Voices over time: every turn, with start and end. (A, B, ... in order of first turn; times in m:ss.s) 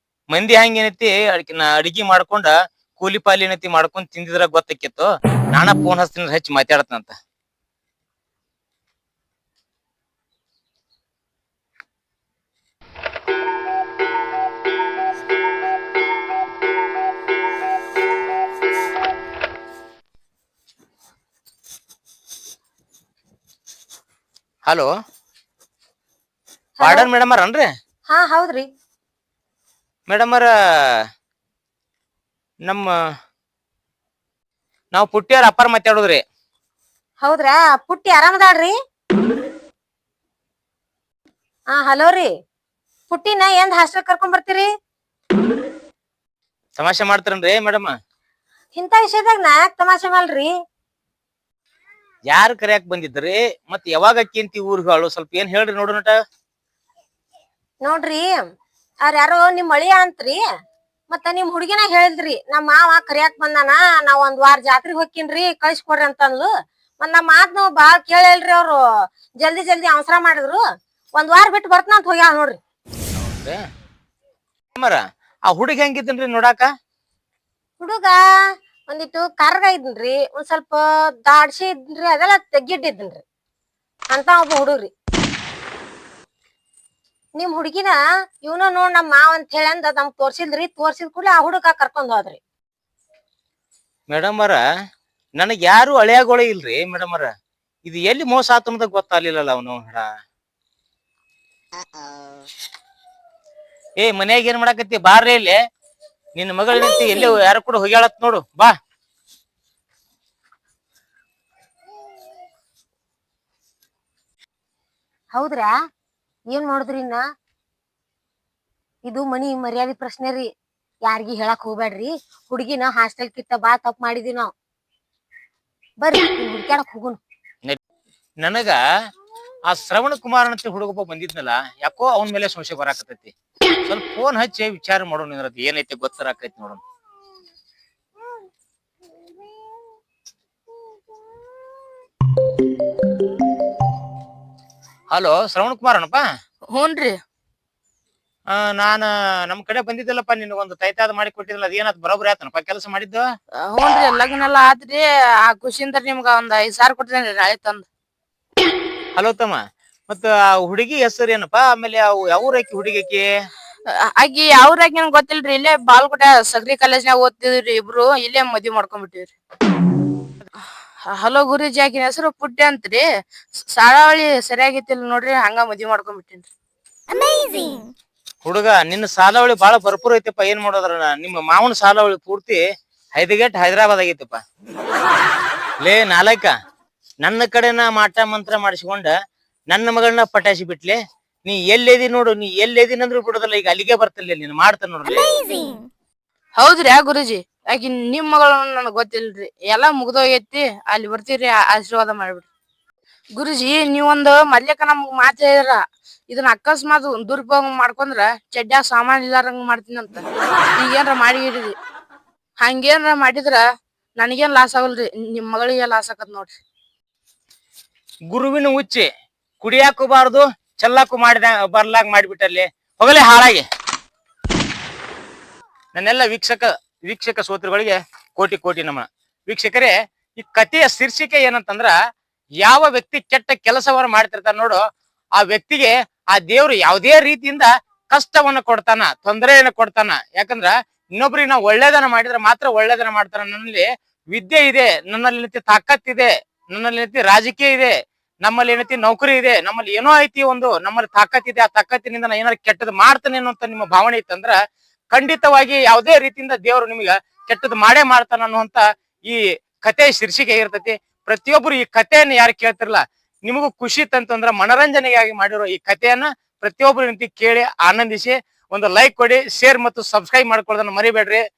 0:00.3-0:07.1 A
0:24.6-0:24.9 A
0:26.8-0:27.1 B
0:26.8-0:27.7 A
0:28.1-0:28.7 B
0:30.1-0:31.0 A
0:32.6-0:32.9 A
0:34.9-0:36.2 A
0:37.2-0:38.7 B
0:41.7-0:42.3 B
0:43.1-0:44.7 B
0:46.8-0:47.9 A
0:48.7-0:50.5 B
0:52.3-0:56.1 A
0:57.8-0:58.4 B
0:59.0-1:00.4 B
1:01.1-1:10.6 B
1:11.1-1:12.6 B
1:13.1-1:13.6 A
1:14.8-1:16.7 A
1:17.8-1:18.2 B
1:18.9-1:23.2 B
1:24.1-1:24.9 B
1:27.3-1:32.4 B
1:34.1-1:34.6 A
1:35.4-1:37.3 A
1:37.8-1:40.1 A
1:44.0-1:45.5 A
1:46.3-1:48.7 A
1:46.7-1:47.4 B
1:55.3-1:55.7 B
1:56.5-1:57.2 B
1:59.0-2:00.5 B
2:01.0-2:04.5 B
2:06.0-2:07.2 B
2:08.4-2:08.8 A
2:09.6-2:13.3 A
2:13.8-2:16.8 A
2:25.1-2:26.2 A
2:26.7-2:27.2 C
2:28.5-2:33.2 A
2:33.6-2:37.9 C
2:39.1-2:43.2 A
2:44.1-2:49.3 C
2:51.1-2:53.0 C
2:53.6-2:56.5 C
2:58.4-3:02.6 A
3:03.1-3:04.4 A
3:05.8-3:06.5 A
3:07.2-3:09.1 A
3:09.7-3:15.5 A
3:16.6-3:22.5 C
3:23.4-3:30.2 C
3:30.8-3:31.7 C
3:32.6-3:33.6 C
3:34.2-3:36.5 C
3:38.3-3:39.1 A
3:39.6-3:43.6 A
3:45.9-3:51.9 A
3:52.6-3:54.8 A
3:55.4-4:14.6 A
4:15.1-4:31.4 A